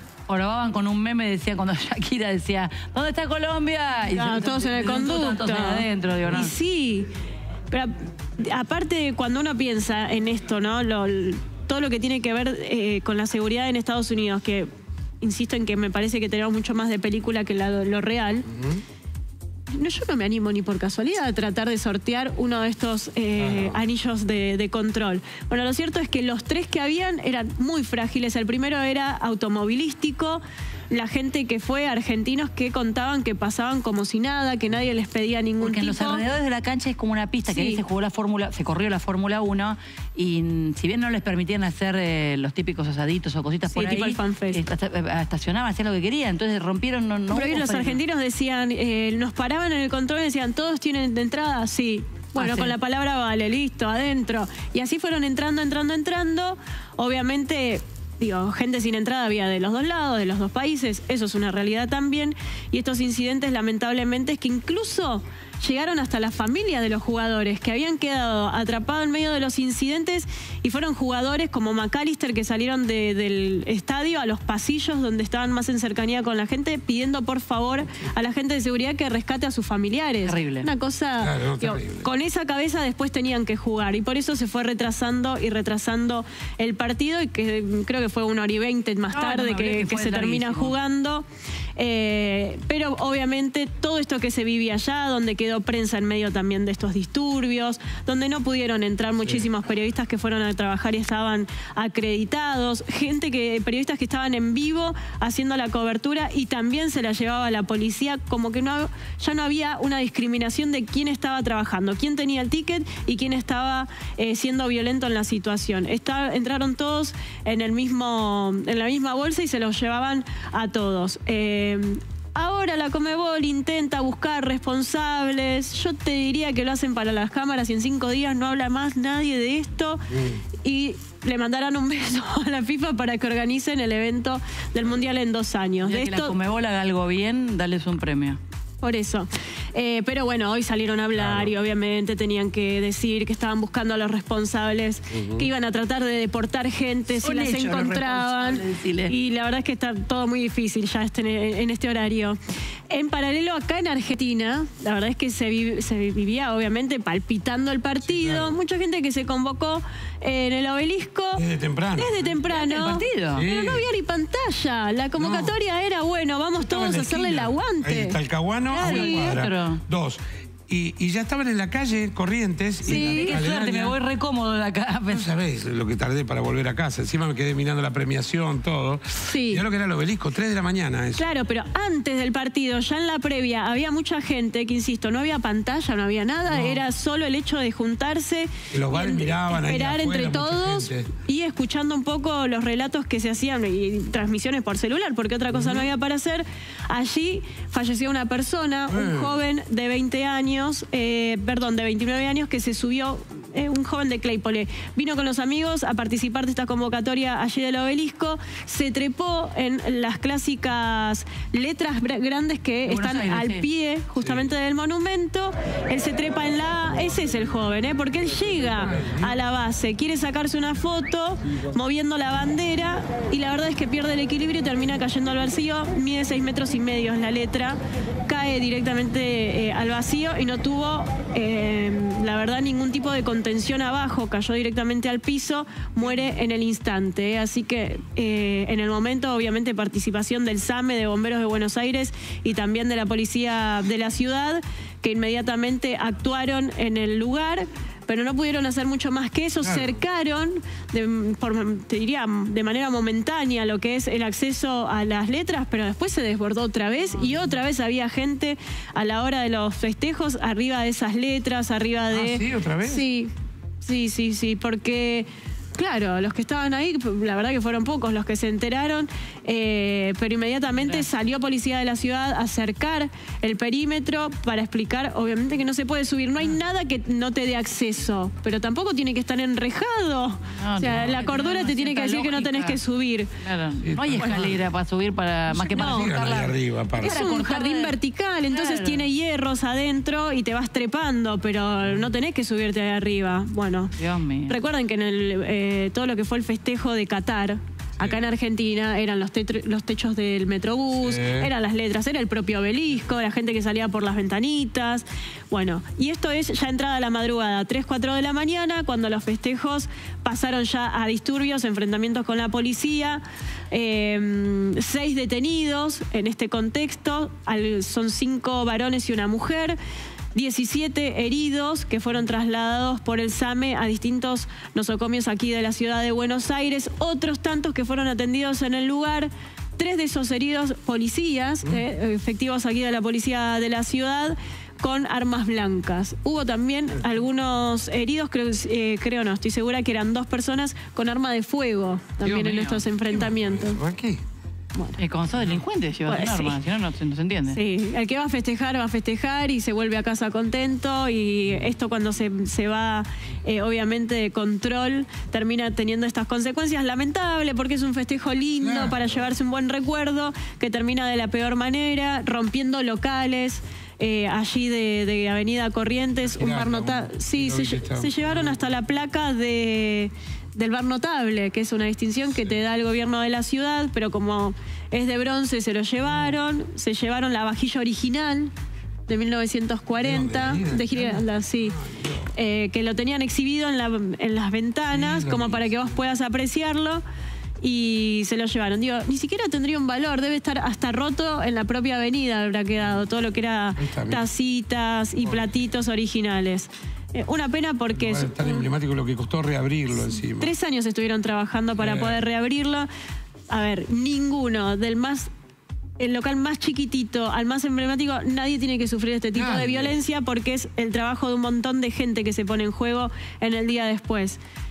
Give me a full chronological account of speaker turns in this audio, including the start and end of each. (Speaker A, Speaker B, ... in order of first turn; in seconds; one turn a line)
Speaker A: 0.3-6.5
Speaker B: 4.1-7.1
Speaker B: 7.7-14.7
Speaker B: 15.2-18.6
Speaker B: 19.7-36.2
Speaker C: 23.4-23.8
Speaker A: 35.6-48.0
Speaker B: 37.5-37.8
Speaker B: 43.7-44.6
Speaker B: 47.3-91.2
Speaker A: 52.4-52.7
Speaker A: 80.2-80.7
Speaker C: 81.2-82.1
Speaker A: 89.1-90.8
Speaker B: 91.8-130.1
Speaker C: 130.1-130.4
Speaker B: 130.6-136.4
Speaker A: 135.8-138.4
Speaker B: 138.8-152.4
Speaker C: 141.2-141.5
Speaker C: 145.1-145.5
Speaker A: 147.2-149.1
Speaker B: 152.9-161.4
Speaker C: 158.0-158.6
Speaker C: 161.3-162.4
Speaker B: 161.9-168.2
Speaker A: 162.5-163.5
Speaker C: 163.3-163.9
Speaker C: 165.2-165.6
Speaker C: 166.6-173.9
Speaker B: 168.7-169.4
Speaker A: 168.7-169.8
Speaker A: 172.8-175.3
Speaker B: 172.8-173.4
Speaker C: 175.1-181.3
Speaker B: 179.3-179.6
Speaker B: 181.2-263.3
Speaker C: 188.7-191.1
Speaker C: 195.5-195.8
Speaker C: 198.9-199.4
Speaker A: 212.8-213.7
Speaker C: 214.2-214.5
Speaker C: 218.9-219.3
Speaker C: 249.6-250.0
Speaker C: 262.1-263.1
Speaker B: 263.8-283.3
Speaker A: 280.6-282.8
Speaker A: 283.4-288.0
Speaker C: 283.8-284.6
Speaker B: 284.2-284.5
Speaker B: 285.5-286.2
Speaker C: 285.6-287.2
Speaker B: 287.0-293.9
Speaker A: 288.5-289.1
Speaker A: 293.9-294.6
Speaker B: 294.5-319.8
Speaker C: 300.9-301.5
Speaker B: 320.3-343.8
Speaker A: 342.2-342.8
Speaker C: 343.0-344.2
Speaker A: 345.0-347.6
Speaker B: 346.1-346.6
Speaker B: 347.5-378.5
Speaker C: 358.6-359.0
Speaker C: 366.3-368.7
Speaker B: 379.1-387.0
Speaker C: 380.0-382.3
Speaker C: 384.9-386.0
Speaker B: 387.6-398.6
Speaker C: 393.8-394.2
Speaker C: 397.9-400.5
Speaker B: 400.4-402.9
Speaker C: 401.8-402.2
Speaker B: 403.5-405.3
Speaker B: 406.0-414.4
Speaker C: 409.3-410.0